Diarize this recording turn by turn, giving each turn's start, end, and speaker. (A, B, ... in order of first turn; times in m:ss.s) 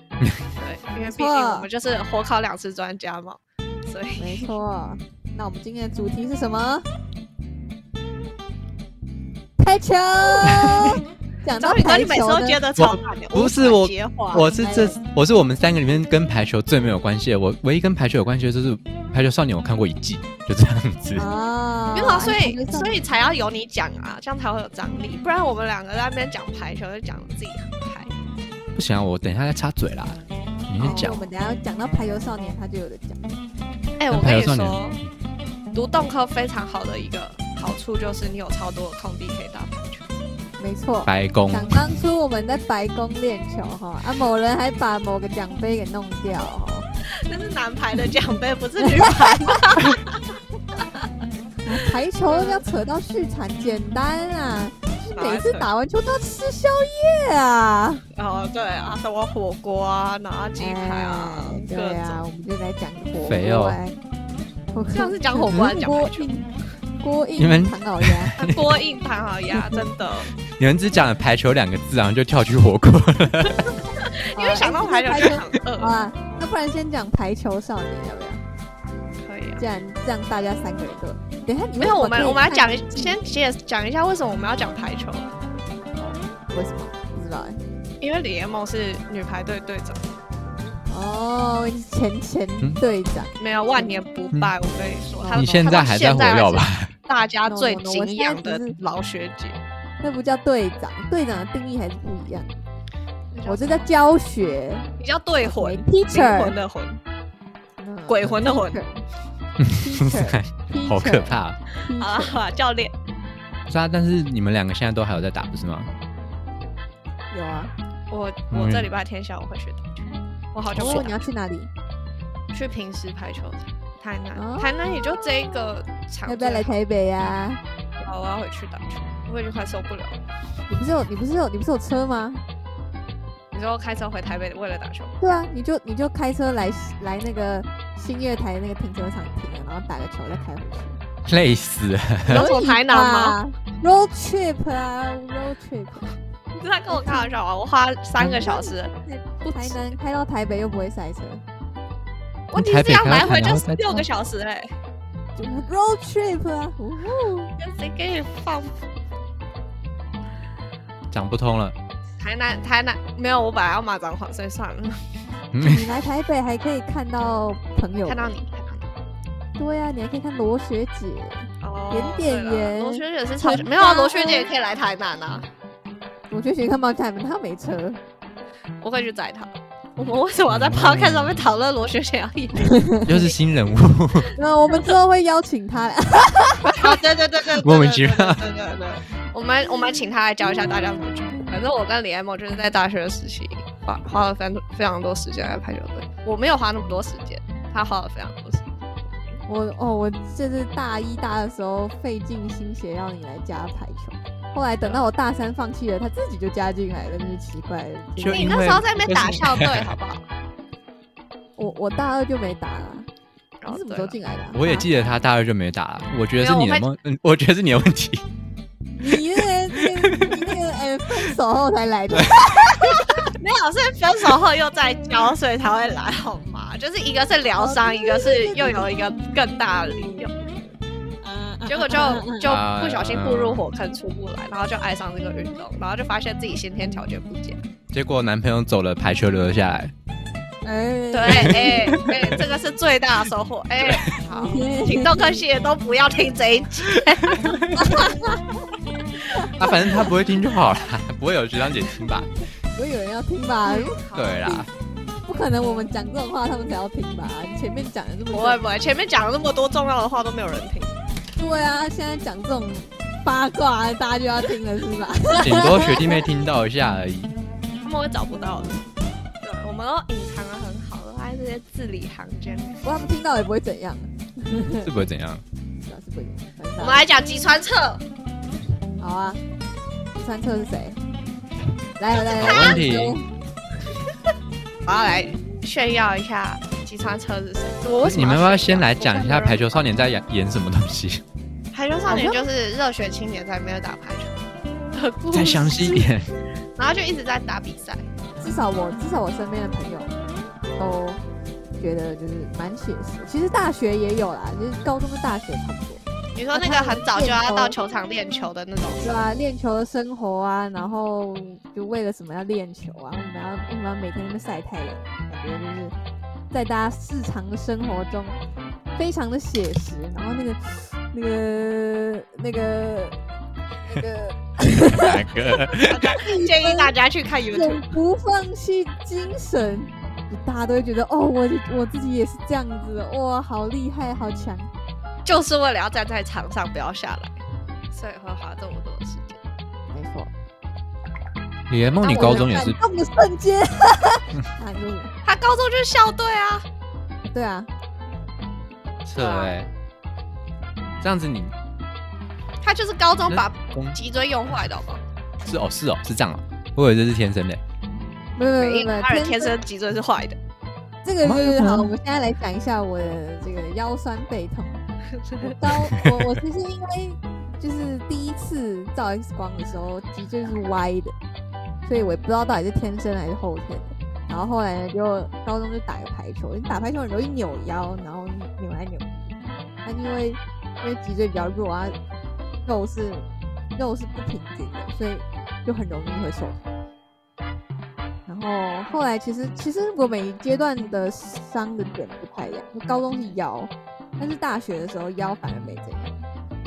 0:00.6-0:04.5 A
0:01.0-0:01.7 B
0:04.2-0:06.8 B
0:09.6-0:12.6 B
0:11.6-0:14.5 A
0:12.8-0:21.2 C
0:14.6-0:15.0 B
0:21.2-0:23.0 B
0:21.9-0:28.1 A
0:28.7-0:31.2 C
0:30.8-0:31.2 A
0:30.8-0:33.2 B
0:34.0-0:35.0 A
0:34.1-0:34.9 C
0:35.7-0:40.0 A
0:40.6-0:46.8 B
0:41.0-0:41.8 C
0:47.2-0:50.2 A
0:48.8-0:49.6 B
0:50.7-0:51.1 A
0:51.6-0:58.0 B
0:52.2-0:52.6 A
0:55.2-0:55.7 A
0:58.1-1:02.2 A
1:00.6-1:04.0 B
1:03.2-1:03.8 C
1:04.7-1:06.4 B
1:04.9-1:06.3 A
1:05.4-1:05.7 C
1:07.0-1:08.3 B
1:07.4-1:08.8 C
1:08.4-1:10.3 A
1:10.5-1:13.8 C
1:14.0-1:16.0 A
1:14.3-1:18.4 B
1:19.2-1:19.6 A
1:19.6-1:23.2 B
1:21.8-1:25.3 A
1:26.0-1:27.6 B
1:28.0-1:30.0 A
1:30.9-1:33.9 B
1:33.4-1:39.6 A
1:35.2-1:35.8 B
1:35.3-1:36.9 C
1:37.5-1:38.8 B
1:40.0-1:42.6 B
1:43.3-1:43.9 A
1:43.4-1:44.9 B
1:45.0-1:47.0 A
1:45.4-1:46.5 B
1:47.8-1:49.0 B
1:48.1-1:48.8 A
1:49.6-1:51.6 C
1:49.7-1:52.4 B
1:52.0-1:52.9 A
1:53.7-1:55.9 C
1:57.3-1:57.7 B
1:58.1-2:01.2 A
1:58.5-1:58.9 C
2:00.7-2:01.7 B
2:02.5-2:06.8 A
2:04.3-2:04.7 B
2:06.2-2:07.6 B
2:08.0-2:10.2 A
2:10.7-2:12.4 B
2:13.5-2:15.1 A
2:15.2-2:21.0 B
2:21.2-2:22.4 C
2:22.3-2:23.4 A
2:22.3-2:26.1 B
2:26.5-2:28.9 A
2:26.9-2:27.3 B
2:28.2-2:28.5 C
2:28.4-2:31.4 B
2:32.5-2:34.7 A
2:32.5-2:34.0 C
2:35.4-2:37.5 B
2:37.6-2:38.8 A
2:41.1-2:41.8 C
2:42.2-2:45.0 A
2:45.5-2:45.9 C
2:45.6-2:48.3 B
2:48.1-2:48.9 A
2:49.6-2:54.5 B
2:51.6-2:55.5 A
2:56.3-2:58.0 B
2:58.8-3:03.3 A
3:00.5-3:01.4 C
3:02.6-3:03.1 B
3:03.0-3:04.3 C
3:04.3-3:06.7 B
3:06.6-3:08.4 C
3:06.8-3:18.7 A
3:19.5-3:29.4 B
3:28.2-3:30.0 C
3:28.3-3:30.2 A
3:31.6-3:33.1 B
3:33.6-3:34.2 A
3:33.7-3:34.9 B
3:34.5-3:38.2 C
3:36.4-3:36.8 A
3:39.0-3:43.3 B
3:39.7-3:40.5 C
3:42.1-3:43.1 C
3:43.2-3:50.7 A
3:47.6-3:48.9 B
3:49.9-3:50.2 B
3:51.2-3:52.4 B
3:51.7-3:57.6 A
3:52.4-3:53.6 C
3:57.9-3:59.9 C
4:00.6-4:02.0 B
4:01.1-4:08.1 A
4:01.3-4:02.4 C
4:03.8-4:04.2 C
4:04.3-4:05.4 B
4:06.9-4:07.9 C
4:07.7-4:08.5 B
4:09.3-4:09.8 B
4:09.5-4:12.3 C
4:12.7-4:14.6 B
4:13.7-4:14.5 A
4:14.1-4:14.7 C
4:15.2-4:18.6 B
4:18.3-4:20.9 A
4:21.4-4:26.2 B
4:25.4-4:27.4 C
4:27.8-4:28.8 A
4:29.4-4:32.8 A
4:32.8-4:34.9 B
4:34.8-4:35.4 C
4:35.8-4:37.0 B
4:36.8-4:38.0 A
4:39.0-4:39.4 B
4:40.1-4:41.0 B
4:42.0-4:43.2 B
4:42.3-4:43.2 C
4:42.4-4:42.8 A
4:44.8-4:49.8 A
4:48.0-4:51.2 C
4:51.7-4:54.4 A
4:52.1-4:52.4 B
4:54.9-4:56.1 A
4:55.3-4:56.3 C
4:56.8-4:58.0 A
4:58.4-5:00.1 B
5:00.8-5:01.2 B
5:01.8-5:06.0 B
5:06.4-5:09.3 A
5:06.5-5:07.7 B
5:09.0-5:15.9 B
5:16.5-5:18.4 B
5:19.0-5:23.2 B
5:23.9-5:25.1 B
5:24.8-5:26.1 C
5:25.7-5:26.9 B
5:25.8-5:27.9 A
5:27.5-5:34.7 B
5:35.2-5:37.3 A
5:37.9-5:39.4 A
5:39.9-5:40.3 B
5:41.7-5:42.8 C
5:42.0-5:45.1 B
5:45.2-5:46.6 A
5:47.2-5:47.7 B
5:49.0-5:49.7 C
5:49.2-5:49.5 A
5:51.0-5:51.5 C
5:52.6-5:55.0 A
5:53.3-5:54.0 C
5:55.4-5:57.6 C
5:58.4-5:59.6 B
5:58.6-6:00.4 A
6:01.0-6:04.8 B
6:01.2-6:01.9 C
6:05.2-6:05.5 A
6:05.4-6:11.1 B
6:05.7-6:06.3 C
6:11.8-6:19.1 B
6:19.8-6:22.0 B
6:22.6-6:26.7 B
6:28.2-6:36.2 B